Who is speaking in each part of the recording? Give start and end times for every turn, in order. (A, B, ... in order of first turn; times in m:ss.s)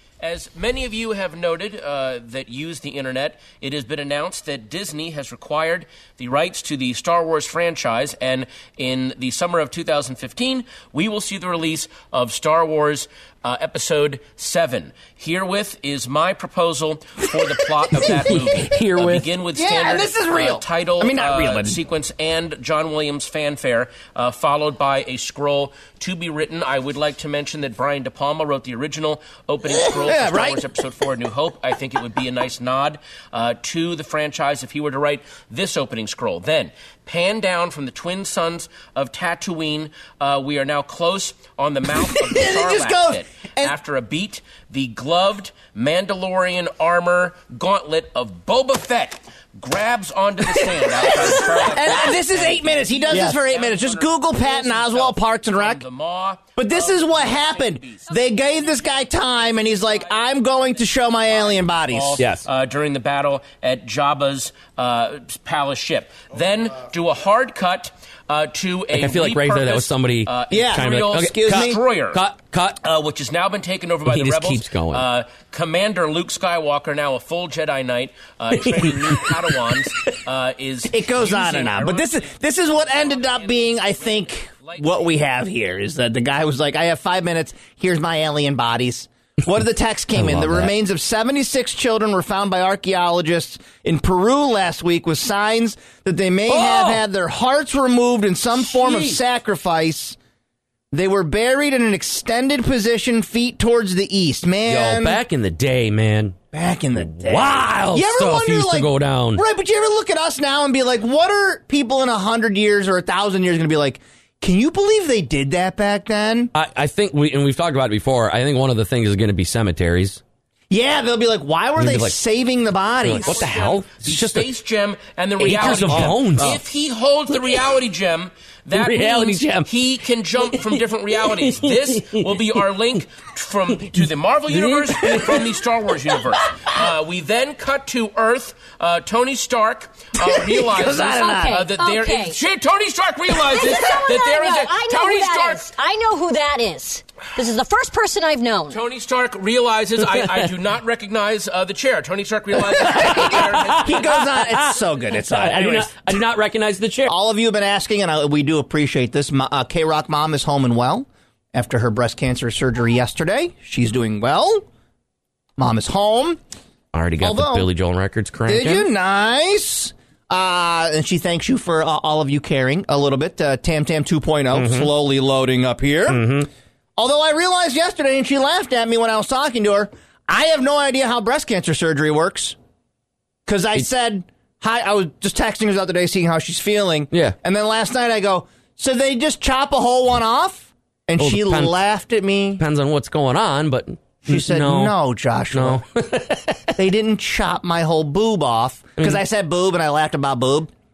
0:00.2-0:59.1 A
0:18.1-0:19.3 B
0:19.5-0:21.8 C
0:29.6-0:30.6 C
0:42.0-0:43.8 C
0:50.4-0:55.8 C
0:56.6-1:02.2 C
0:59.7-1:00.2 A
1:01.8-1:12.2 A
1:02.2-1:02.4 B
1:08.9-1:12.8 B
1:10.5-1:11.8 C
1:12.8-1:25.2 A
1:14.1-1:15.1 B
1:18.5-1:19.6 B
1:20.9-1:40.2 C
1:30.1-1:30.7 B
1:36.5-1:37.0 B
1:38.6-1:39.2 B
1:40.9-1:45.2 C
1:44.6-1:46.4 B
1:46.5-1:56.5 C
1:47.0-1:49.4 B
1:56.5-2:00.2 B
2:00.7-2:03.4 C
2:01.8-2:02.2 B
2:03.0-2:04.5 B
2:03.2-2:25.7 A
2:05.4-2:06.6 B
2:05.6-2:06.6 C
2:08.7-2:09.7 B
2:11.3-2:12.3 B
2:13.9-2:15.4 B
2:20.2-2:21.6 C
2:21.1-2:22.4 D
2:23.4-2:28.8 D
2:28.7-2:34.0 A
2:30.0-2:30.4 B
2:32.7-2:36.0 C
2:32.8-2:37.1 B
2:37.1-2:44.6 C
2:45.6-2:46.4 C
2:46.9-2:48.9 B
2:47.2-2:47.7 C
2:48.5-2:56.2 C
2:54.5-2:54.9 B
2:56.1-2:56.5 B
2:57.0-3:02.6 C
3:03.4-3:12.6 C
3:11.2-3:11.8 B
3:12.6-3:15.0 B
3:14.2-3:15.8 C
3:15.5-3:16.8 B
3:16.8-3:20.7 C